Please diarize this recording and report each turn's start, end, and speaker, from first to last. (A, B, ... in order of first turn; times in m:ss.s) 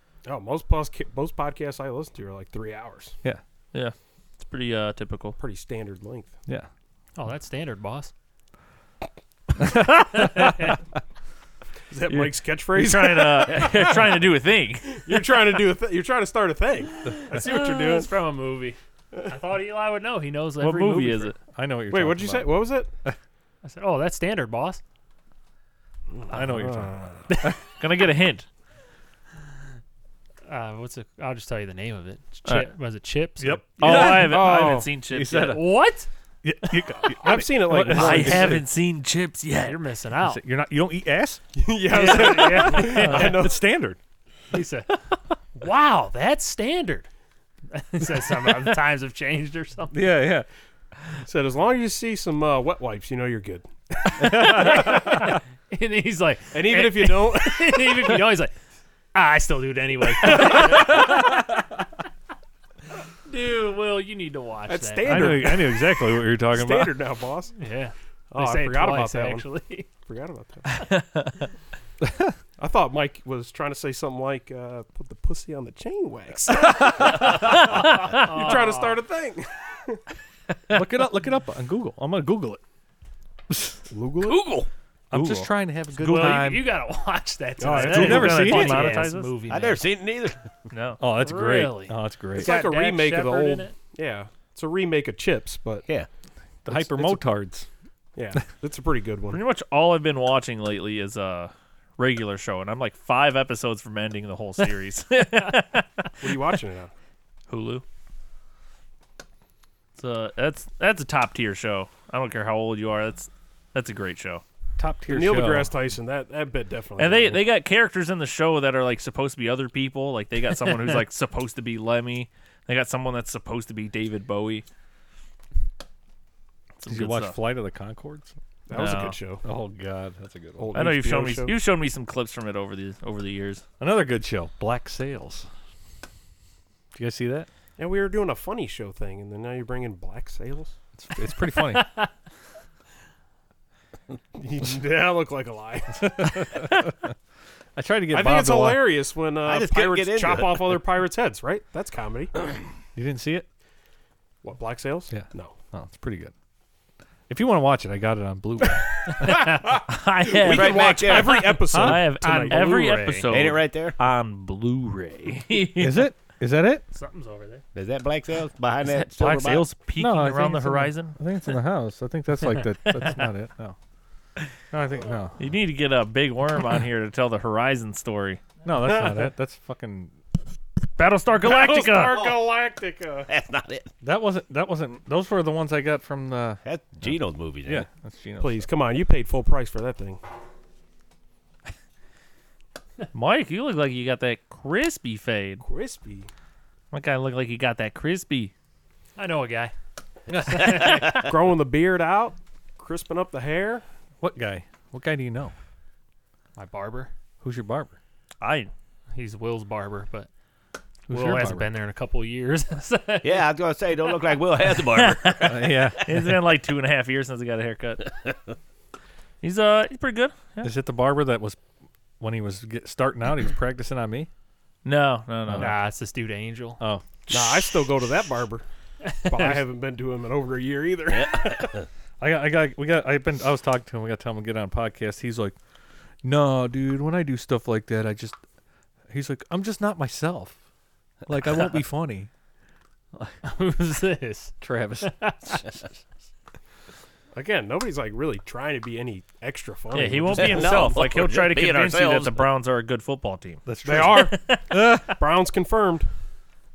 0:00.2-0:03.2 A
0:03.7-0:05.4 B
0:05.4-0:06.3 A
0:07.1-0:08.1 C
0:09.6-0:10.7 D
0:11.9-0:14.2 A
0:12.1-0:15.2 B
0:14.9-0:18.1 A
0:17.1-0:21.3 C
0:20.6-0:21.4 B
0:21.5-0:23.2 D
0:21.9-0:22.9 A
0:23.6-0:24.8 C
0:26.1-0:27.0 A
0:26.3-0:27.5 D
0:27.6-0:28.5 B
0:30.4-0:34.1 C
0:32.4-0:32.7 B
0:33.4-0:35.8 D
0:33.8-0:35.6 B
0:34.0-0:34.9 A
0:35.4-0:36.1 C
0:36.4-0:38.6 D
0:37.2-0:38.6 A
0:37.8-0:39.8 B
0:39.6-0:40.4 C
0:40.2-0:41.4 D
0:41.5-0:43.6 A
0:41.9-0:43.5 C
0:42.0-0:44.0 D
0:44.5-0:45.0 C
0:45.5-0:47.1 C
0:47.7-0:50.2 C
0:49.9-0:50.5 D
0:51.2-0:53.7 A
0:54.2-0:58.5 C
0:54.2-0:55.3 D
0:56.5-0:58.1 A
0:59.1-1:01.5 C
1:03.2-1:05.6 C
1:04.7-1:07.5 A
1:05.0-1:07.0 D
1:07.6-1:09.9 C
1:08.3-1:09.5 A
1:10.0-1:10.8 A
1:10.7-1:11.5 B
1:12.0-1:12.3 D
1:12.6-1:20.0 A
1:16.8-1:17.0 D
1:17.2-1:18.2 B
1:18.1-1:19.0 C
1:20.7-1:22.6 D
1:23.5-1:23.8 D
1:23.9-1:24.4 A
1:24.3-1:25.5 B
1:25.1-1:26.7 D
1:26.0-1:29.9 C
1:27.6-1:29.0 A
1:27.7-1:29.4 B
1:27.8-1:29.0 D
1:29.5-1:30.5 E
1:30.7-1:31.0 B
1:31.0-1:32.5 D
1:31.1-1:33.7 C
1:32.4-1:35.8 A
1:36.6-1:37.7 D
1:36.7-1:37.2 A
1:38.2-1:39.4 A
1:39.3-1:46.3 B
1:46.2-1:46.9 A
1:47.5-1:47.8 B
1:50.0-1:54.4 B
1:54.8-1:55.7 D
1:55.1-1:57.4 A
1:57.0-2:04.6 B
2:06.8-2:07.4 B
2:06.8-2:08.3 D
2:08.7-2:09.4 A
2:08.7-2:09.2 B
2:09.4-2:10.8 D
2:10.6-2:11.5 A
2:10.7-2:13.6 B
2:13.8-2:15.5 D
2:16.9-2:17.5 D
2:17.8-2:20.7 A
2:21.0-2:21.9 D
2:21.5-2:22.1 C
2:24.3-2:26.5 A
2:26.0-2:27.1 D
2:27.8-2:28.9 D
2:28.1-2:32.5 A
2:29.4-2:30.8 E
2:32.9-2:33.4 D
2:34.4-2:35.5 A
2:35.1-2:36.3 D
2:37.3-2:39.4 D
2:39.1-2:42.7 A
2:39.8-2:46.1 B
2:40.4-2:41.6 E
2:41.7-2:42.1 D
2:42.1-2:43.3 C
2:43.3-2:44.0 E
2:45.8-2:46.8 D
2:46.9-2:47.6 C
2:47.7-2:49.7 E
2:48.8-2:51.2 B
2:49.2-2:53.8 D
2:52.6-2:53.2 B
2:54.7-2:55.5 D
2:55.4-2:58.4 B
2:58.6-3:00.1 D
3:01.0-3:02.3 B
3:01.4-3:03.3 A
3:03.3-3:03.9 E
3:04.0-3:08.7 D
3:06.6-3:07.9 E
3:08.4-3:10.2 A
3:13.1-3:15.6 B
3:15.6-3:16.3 A
3:16.9-3:18.5 B
3:19.2-3:19.7 C
3:20.3-3:20.5 D
3:20.4-3:21.3 C
3:21.0-3:23.8 A
3:24.2-3:25.5 D
3:26.6-3:27.1 C
3:27.4-3:28.0 D
3:28.4-3:28.7 B
3:29.1-3:30.3 C
3:31.1-3:31.7 D
3:31.1-3:33.4 C
3:33.2-3:35.7 E
3:34.9-3:38.1 B
3:35.4-3:36.3 D
3:39.4-3:40.7 B
3:40.6-3:41.6 D
3:42.2-3:44.3 D
3:44.8-3:45.8 B
3:45.4-3:45.8 D
3:45.6-3:46.8 C
3:47.3-3:48.6 A
3:49.0-3:49.6 C
3:49.2-3:51.8 A
3:52.2-3:55.6 D
3:56.2-3:58.4 D
3:59.1-4:00.6 D
4:01.2-4:02.3 D
4:03.4-4:05.4 C
4:04.6-4:06.0 D
4:07.3-4:10.9 A
4:09.9-4:14.7 B
4:10.3-4:12.5 E
4:13.6-4:15.1 D
4:13.8-4:16.1 A